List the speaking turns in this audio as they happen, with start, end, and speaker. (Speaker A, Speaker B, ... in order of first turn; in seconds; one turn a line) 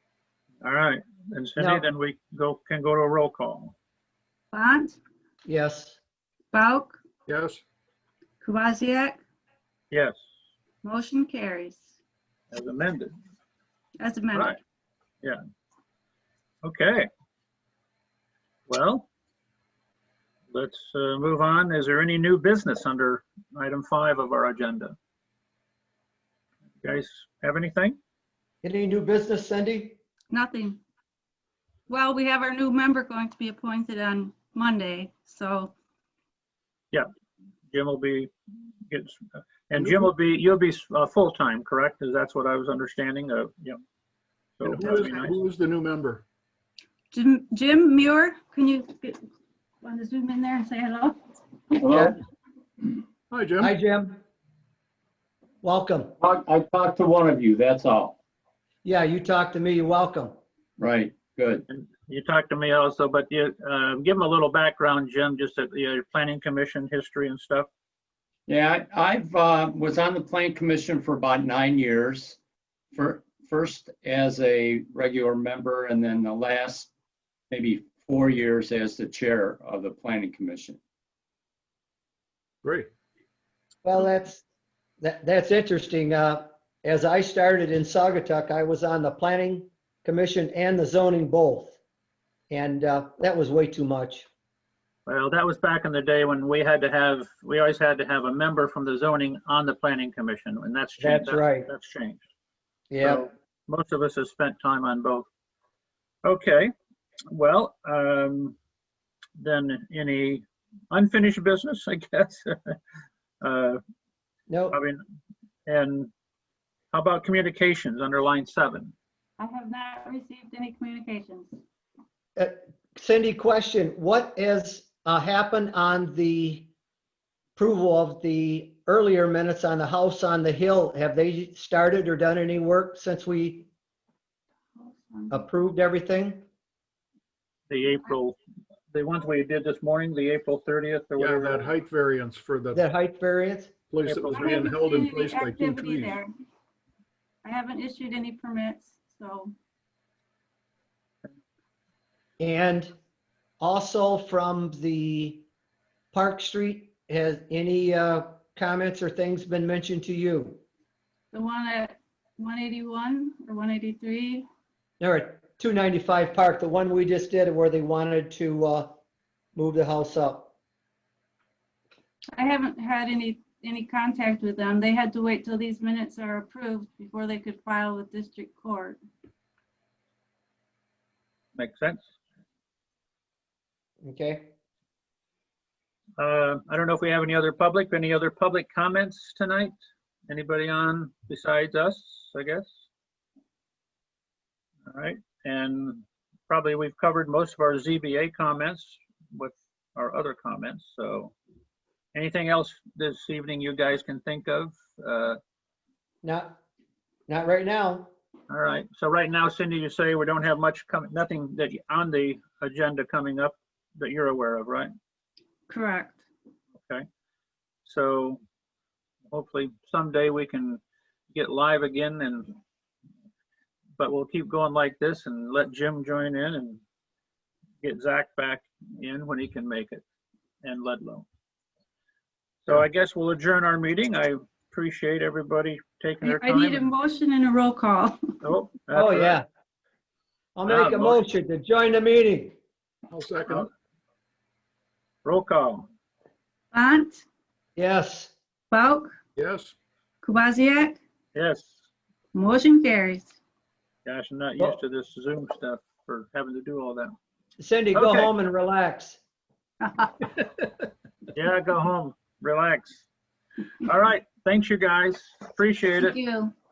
Speaker A: 0.6-3.7
Speaker B: 1.6-1.8
Speaker C: 4.5-5.0
Speaker B: 5.5-6.0
Speaker C: 6.5-7.0
Speaker D: 7.3-7.6
Speaker C: 8.4-9.2
Speaker A: 9.9-10.2
Speaker C: 10.8-11.9
Speaker A: 12.5-13.1
Speaker C: 14.0-14.6
Speaker A: 16.6-17.1
Speaker A: 18.7-19.1
Speaker A: 20.5-24.9
Speaker A: 26.8-28.0
Speaker B: 28.6-30.0
Speaker C: 30.3-30.8
Speaker C: 31.9-35.7
Speaker A: 37.7-38.3
Speaker A: 38.9-43.8
Speaker A: 44.6-45.3
Speaker D: 44.6-46.2
Speaker C: 47.1-49.2
Speaker C: 49.8-51.2
Speaker E: 51.8-52.2
Speaker B: 51.9-52.2
Speaker D: 53.3-53.7
Speaker B: 53.6-54.2
Speaker B: 55.6-56.1
Speaker E: 56.2-58.2
Speaker B: 58.8-60.4
Speaker E: 60.8-61.6
Speaker A: 61.7-67.7
Speaker E: 68.5-72.4
Speaker E: 72.9-76.9
Speaker E: 77.5-80.8
Speaker D: 82.6-82.9
Speaker B: 83.8-84.4
Speaker B: 85.0-91.8
Speaker B: 92.5-94.3
Speaker A: 95.0-102.2
Speaker B: 101.0-101.7
Speaker B: 102.9-103.3
Speaker A: 103.0-105.3
Speaker A: 106.2-106.7
Speaker A: 107.3-108.5
Speaker A: 109.4-112.7
Speaker A: 113.4-113.8
Speaker B: 114.5-114.8
Speaker A: 114.7-115.0
Speaker A: 115.7-116.1
Speaker A: 116.9-118.9
Speaker C: 119.4-121.6
Speaker B: 122.3-126.7
Speaker B: 127.5-133.7
Speaker C: 134.8-135.4
Speaker B: 135.3-136.4
Speaker A: 137.7-138.4
Speaker A: 138.9-141.7
Speaker D: 141.2-142.8
Speaker B: 142.7-143.7
Speaker D: 143.9-146.2
Speaker A: 144.0-144.5
Speaker C: 144.3-146.3
Speaker C: 147.4-149.5
Speaker B: 152.4-152.9
Speaker B: 153.6-155.4
Speaker B: 156.1-160.6
Speaker C: 161.3-164.5
Speaker B: 165.0-169.0
Speaker B: 169.5-170.5
Speaker C: 172.3-179.0
Speaker A: 181.5-182.1
Speaker B: 184.0-184.5
Speaker A: 186.2-189.7
Speaker A: 190.3-192.7
Speaker A: 194.9-201.3
Speaker A: 202.1-205.4
Speaker B: 206.2-206.6
Speaker B: 207.3-208.1
Speaker A: 208.5-214.9
Speaker C: 215.7-216.2
Speaker A: 216.8-217.0
Speaker A: 217.8-218.4
Speaker A: 219.3-220.8
Speaker A: 221.3-222.5
Speaker A: 224.0-226.8
Speaker A: 227.8-230.0
Speaker A: 230.6-231.2
Speaker A: 232.6-236.9
Speaker C: 236.2-238.2
Speaker A: 238.4-239.4
Speaker B: 238.9-239.4
Speaker B: 240.6-242.6
Speaker A: 240.7-241.2
Speaker D: 243.1-243.7
Speaker A: 245.2-245.8
Speaker C: 246.7-247.2
Speaker B: 247.8-248.3
Speaker C: 248.7-249.1
Speaker D: 249.3-249.7
Speaker C: 250.2-251.0
Speaker A: 251.3-251.8
Speaker C: 252.3-253.3
Speaker A: 254.0-257.1
Speaker B: 257.6-259.2
Speaker A: 257.9-258.3
Speaker C: 259.8-260.2
Speaker A: 261.3-263.0
Speaker A: 263.8-266.2
Speaker C: 266.0-266.5